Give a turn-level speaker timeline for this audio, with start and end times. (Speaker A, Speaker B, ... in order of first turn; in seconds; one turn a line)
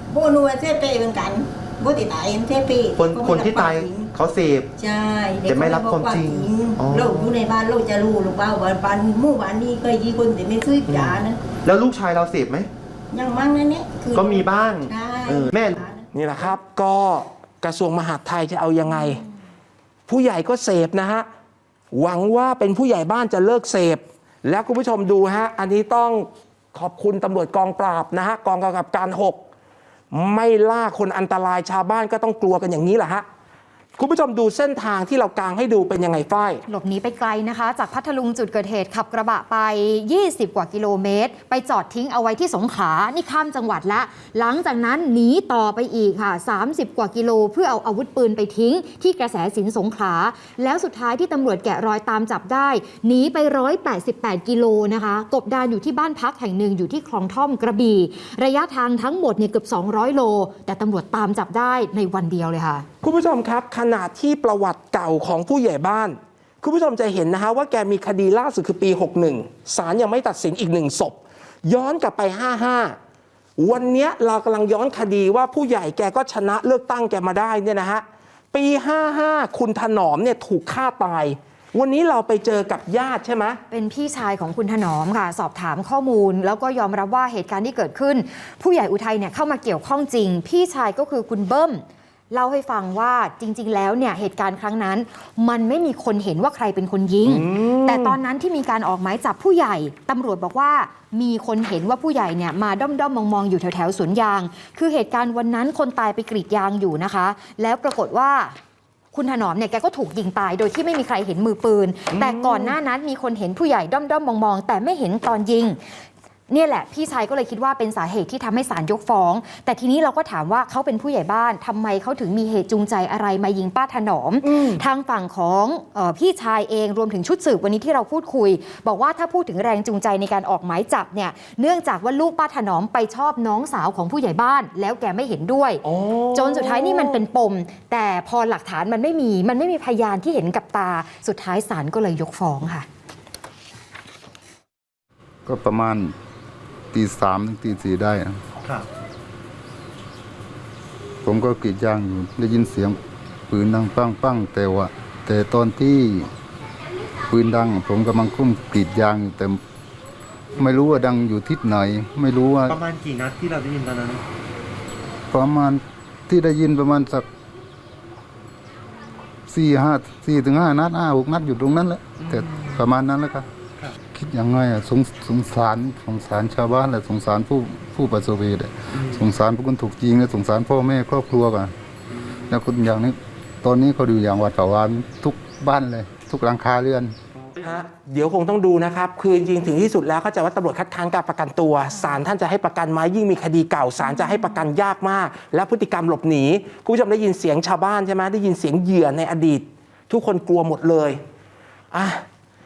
Speaker A: 0.1-4.1
Speaker B: 2.9-4.7
Speaker A: 4.8-11.4
Speaker B: 5.5-7.4
Speaker B: 10.9-12.7
Speaker A: 13.1-16.1
Speaker B: 14.1-15.9
Speaker C: 16.1-19.2
Speaker C: 20.1-21.3
Speaker C: 21.9-29.4
Speaker C: 30.1-33.2
Speaker C: 34.0-36.6
Speaker D: 36.7-62.9
Speaker C: 63.0-73.0
Speaker C: 73.6-83.6
Speaker D: 83.7-108.5
Speaker C: 97.2-98.2
Speaker D: 109.1-115.8
Speaker C: 112.1-112.8
Speaker D: 116.5-142.9
Speaker C: 124.4-124.8
Speaker C: 135.8-137.2
Speaker E: 145.5-146.1
Speaker E: 146.9-148.4
Speaker E: 151.2-153.0
Speaker E: 153.5-156.3
Speaker E: 157.3-159.6
Speaker E: 160.6-162.8
Speaker B: 162.7-164.2
Speaker E: 165.3-167.3
Speaker E: 169.5-173.5
Speaker E: 174.1-181.7
Speaker E: 182.5-187.2
Speaker C: 187.6-201.2
Speaker D: 194.0-194.6
Speaker C: 201.9-202.2